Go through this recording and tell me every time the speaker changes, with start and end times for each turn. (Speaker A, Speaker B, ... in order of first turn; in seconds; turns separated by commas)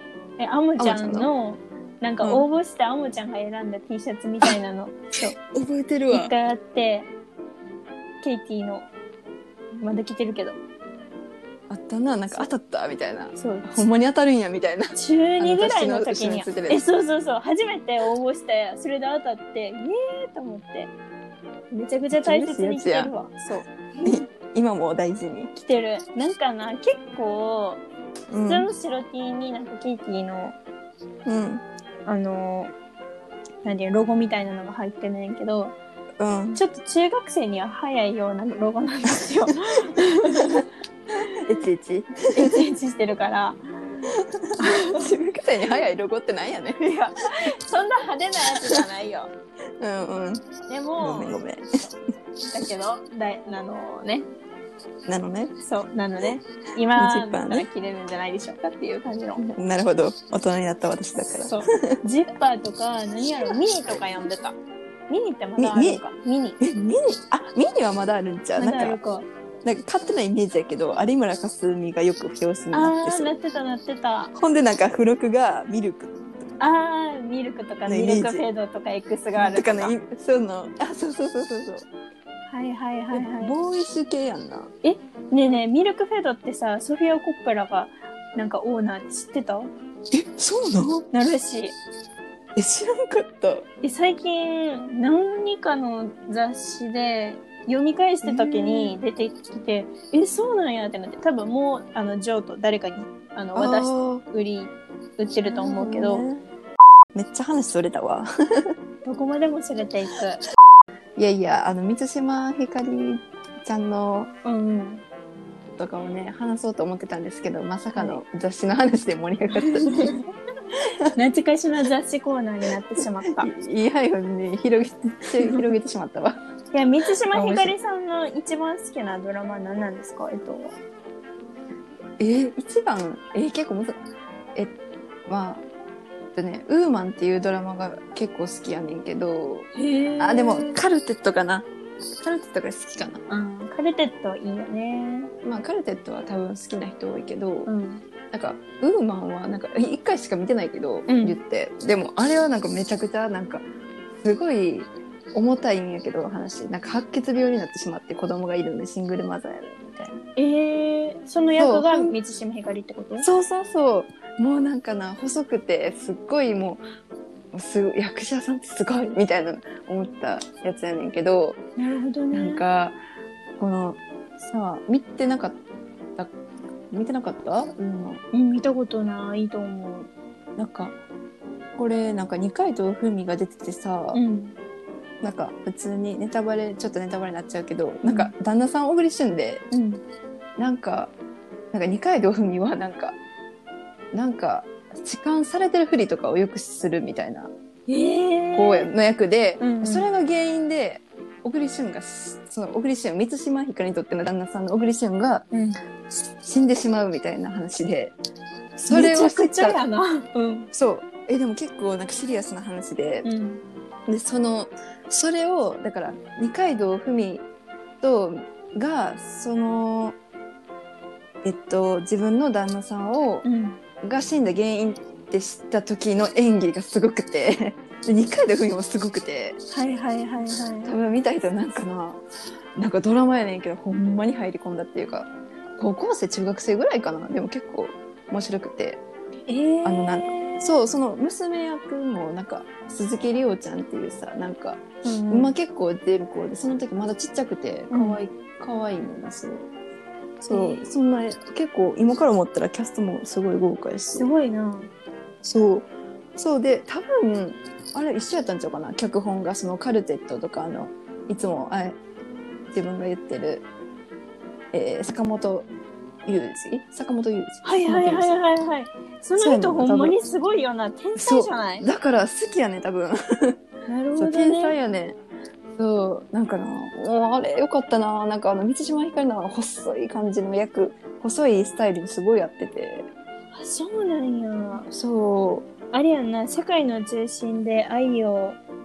Speaker A: 0.4-5.3, Speaker B: 0.8-1.3, Speaker B: 5.3-6.3, Speaker A: 6.1-7.1, Speaker A: 8.2-8.9, Speaker A: 9.8-10.6, Speaker B: 11.7-16.8, Speaker A: 13.3-13.9, Speaker A: 14.9-20.9, Speaker A: 21.7-24.3, Speaker B: 22.1-23.1, Speaker B: 24.0-25.5, Speaker A: 25.6-27.8, Speaker B: 28.3-28.7, Speaker A: 28.4-30.6, Speaker B: 31.2-31.6, Speaker A: 32.0-32.7, Speaker A: 33.6-35.7, Speaker B: 36.2-36.6, Speaker A: 36.5-40.6, Speaker B: 40.4-40.6, Speaker A: 41.2-41.6, Speaker B: 41.3-42.6, Speaker A: 42.3-43.6, Speaker B: 44.1-47.0, Speaker A: 44.6-45.1, Speaker A: 46.9-49.3, Speaker B: 49.8-50.5, Speaker A: 50.7-51.4, Speaker B: 51.0-51.9, Speaker A: 52.5-54.3, Speaker B: 55.0-55.5, Speaker A: 55.6-59.4, Speaker B: 56.9-57.7, Speaker B: 59.4-62.0, Speaker A: 61.4-64.5, Speaker A: 65.1-66.6, Speaker B: 65.6-66.0, Speaker B: 66.6-69.0, Speaker A: 68.6-69.3, Speaker B: 69.6-73.3, Speaker A: 72.7-74.3, Speaker B: 74.3-76.2, Speaker A: 76.6-79.9, Speaker B: 77.9-78.4, Speaker B: 79.4-81.9, Speaker A: 82.5-83.5, Speaker B: 83.1-84.7, Speaker A: 84.8-89.7, Speaker B: 90.1-91.0, Speaker A: 91.1-91.8, Speaker B: 92.5-93.7, Speaker A: 93.8-106.2, Speaker B: 98.2-99.0, Speaker B: 103.5-104.2, Speaker B: 105.4-106.4, Speaker B: 107.1-108.7, Speaker A: 109.0-110.4, Speaker B: 111.2-114.3, Speaker A: 114.4-115.0, Speaker B: 115.8-120.1, Speaker A: 117.9-118.2, Speaker A: 119.5-120.2, Speaker A: 121.1-123.5, Speaker B: 123.2-126.4, Speaker A: 125.4-125.7, Speaker A: 126.7-130.8, Speaker B: 127.3-127.7, Speaker B: 132.2-133.9, Speaker B: 135.3-135.6, Speaker B: 136.3-139.7, Speaker A: 139.7-140.8, Speaker B: 140.2-143.2, Speaker A: 143.3-145.3, Speaker B: 145.4-147.7, Speaker A: 147.7-148.1, Speaker B: 148.3-153.6, Speaker A: 151.1-151.4, Speaker B: 154.2-160.2, Speaker A: 160.4-163.3, Speaker B: 161.6-162.1, Speaker B: 163.2-166.8, Speaker B: 167.5-171.6, Speaker A: 171.8-172.6, Speaker B: 172.3-173.0, Speaker B: 173.6-175.6, Speaker B: 176.9-178.2, Speaker A: 178.3-180.1, Speaker B: 180.6-181.0, Speaker B: 181.8-184.2, Speaker A: 184.1-184.6, Speaker B: 185.2-189.6, Speaker A: 188.1-188.3, Speaker A: 189.7-190.0, Speaker B: 190.6-191.1, Speaker B: 191.7-193.2, Speaker B: 194.1-197.5, Speaker A: 197.9-198.9, Speaker B: 198.5-205.4, Speaker A: 199.6-200.1, Speaker A: 205.5-205.8, Speaker B: 206.4-208.1, Speaker B: 208.8-209.8, Speaker A: 208.9-210.7, Speaker B: 210.7-213.3, Speaker A: 213.2-213.6, Speaker B: 214.1-217.4, Speaker B: 218.0-220.2, Speaker B: 221.4-223.4, Speaker A: 223.4-223.8, Speaker B: 224.0-229.6, Speaker A: 229.7-230.9, Speaker B: 230.8-232.2, Speaker B: 232.8-239.0, Speaker A: 239.5-240.7, Speaker B: 239.8-249.7, Speaker A: 245.0-245.6, Speaker A: 247.9-248.2, Speaker B: 250.4-254.3, Speaker A: 250.5-250.9, Speaker A: 254.2-254.9, Speaker B: 255.4-262.0, Speaker B: 262.7-263.6, Speaker B: 264.7-265.7, Speaker B: 266.2-268.3, Speaker A: 267.6-271.9, Speaker B: 269.4-270.2, Speaker B: 271.1-273.5, Speaker A: 273.9-274.8, Speaker B: 274.1-275.2, Speaker B: 275.7-283.1, Speaker A: 283.5-284.9, Speaker B: 284.9-285.7, Speaker A: 285.9-288.6